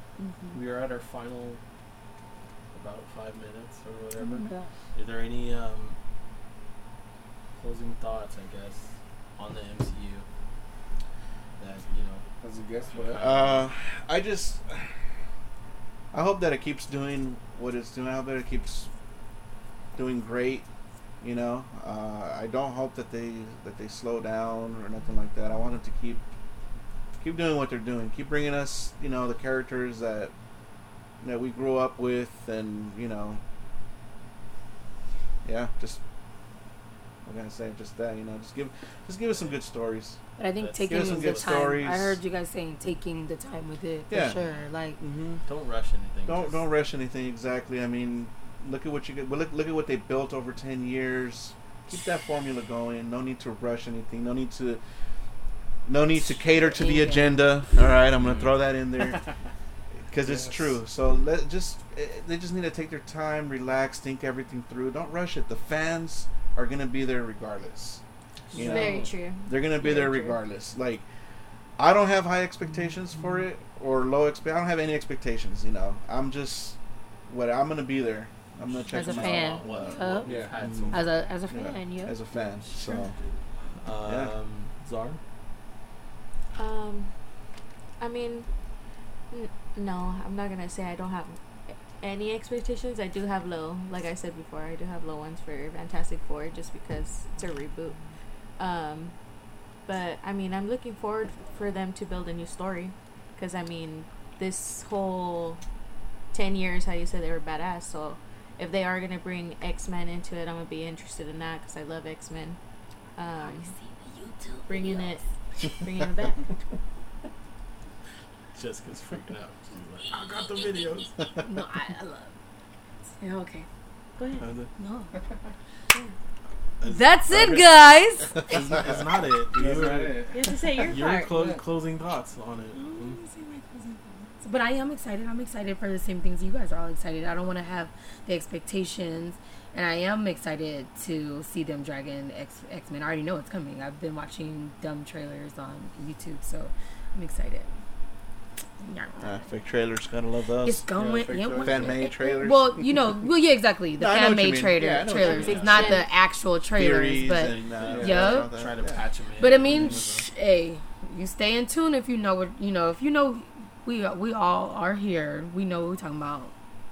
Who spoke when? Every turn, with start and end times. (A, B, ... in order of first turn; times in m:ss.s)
0:00.2-0:00.6 A
0:00.5-0:01.6 B
0:02.7-0:06.0 B
0:04.2-0:04.7 A
0:07.6-0:10.2 B
0:11.6-0:12.2 B
0:12.4-0:13.2 C
0:12.9-0:13.6 B
0:13.2-0:14.6 D
0:16.1-0:18.9 D
0:19.9-0:20.6 D
0:21.2-0:26.2 D
0:27.2-0:30.3 D
0:31.2-0:33.4 D
0:35.4-0:36.0 D
0:37.2-0:40.2 D
0:40.4-0:45.0 A
0:40.6-0:41.7 B
0:40.9-0:42.2 D
0:44.1-0:44.4 D
0:45.0-0:45.4 D
0:45.4-0:46.6 B
0:46.2-0:54.8 D
0:55.8-0:59.2 D
0:56.1-0:57.5 A
0:58.2-0:58.6 B
1:00.1-1:08.0 D
1:00.3-1:00.7 B
1:08.5-1:09.0 B
1:08.5-1:11.0 D
1:08.6-1:10.4 E
1:11.8-1:16.8 D
1:17.3-1:20.0 D
1:18.9-1:21.1 B
1:18.9-1:20.3 A
1:20.2-1:20.5 C
1:20.6-1:23.1 D
1:20.9-1:22.2 A
1:23.8-1:25.2 B
1:24.0-1:24.3 D
1:26.5-1:27.1 E
1:28.0-1:28.5 E
1:29.3-1:31.4 E
1:32.0-1:38.0 E
1:38.6-1:39.1 E
1:39.8-1:45.6 E
1:46.3-1:52.6 E
1:53.2-1:53.7 E
1:53.4-1:55.2 A
1:54.7-1:56.5 E
1:58.5-2:01.1 B
2:00.3-2:02.3 A
2:03.2-2:03.6 A
2:04.2-2:04.4 E
2:04.4-2:04.7 B
2:04.8-2:05.1 A
2:06.8-2:07.9 B
2:06.8-2:08.8 A
2:08.4-2:13.2 B
2:09.5-2:10.4 C
2:10.3-2:11.3 E
2:10.8-2:11.3 A
2:11.3-2:11.6 C
2:12.7-2:27.7 A
2:28.8-2:29.4 A
2:29.2-2:30.8 D
2:30.6-2:38.5 A
2:30.9-2:32.0 C
2:31.6-2:32.9 D
2:34.0-2:36.0 D
2:35.1-2:36.0 B
2:35.6-2:35.9 E
2:36.7-2:39.0 D
2:37.7-2:40.1 B
2:37.8-2:38.4 C
2:39.4-2:46.5 A
2:39.6-2:40.2 C